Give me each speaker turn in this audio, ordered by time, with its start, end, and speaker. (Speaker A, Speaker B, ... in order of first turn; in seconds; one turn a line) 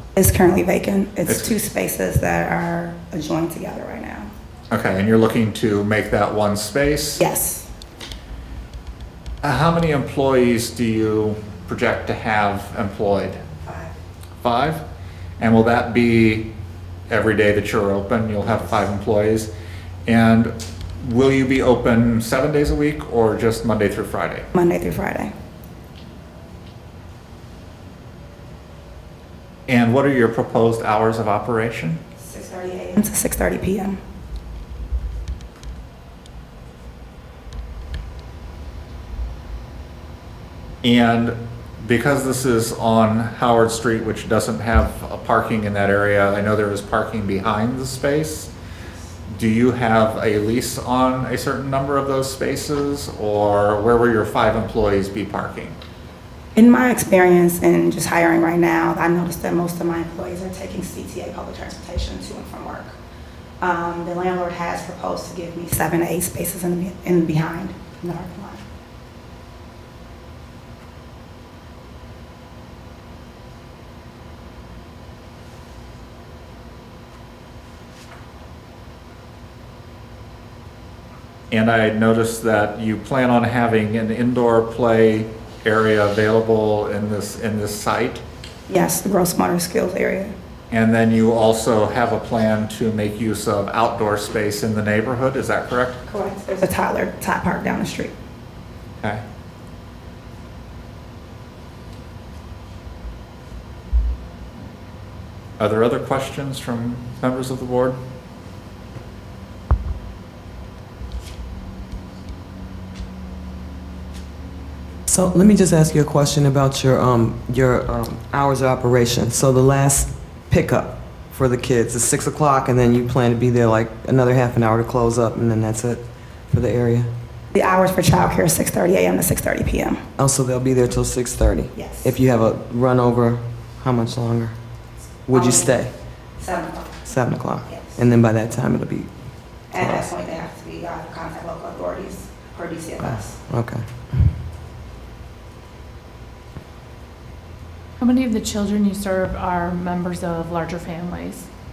Speaker A: 0.1-4.3
Speaker B: 1.3-1.5
Speaker B: 4.7-7.2
Speaker A: 7.2-7.7
Speaker B: 9.4-13.4
Speaker A: 13.6-13.9
Speaker B: 14.4-14.8
Speaker B: 15.4-16.5
Speaker B: 17.1-19.5
Speaker B: 20.1-24.5
Speaker A: 24.5-25.3
Speaker B: 29.7-32.0
Speaker A: 32.2-34.0
Speaker B: 40.8-48.5
Speaker B: 49.3-55.8
Speaker A: 56.5-62.9
Speaker A: 63.6-68.6
Speaker B: 81.5-88.2
Speaker A: 88.7-90.3
Speaker B: 90.7-96.0
Speaker A: 96.1-98.1
Speaker B: 99.0-99.2
Speaker B: 105.6-108.0
Speaker C: 115.1-127.1
Speaker A: 127.5-130.0
Speaker C: 130.2-134.6
Speaker A: 131.7-132.1
Speaker C: 135.3-135.9
Speaker A: 135.3-135.7
Speaker A: 136.4-137.0
Speaker C: 137.0-139.1
Speaker A: 137.7-137.9
Speaker A: 139.7-143.4
Speaker C: 139.8-140.1
Speaker C: 143.5-143.8
Speaker D: 148.0-151.5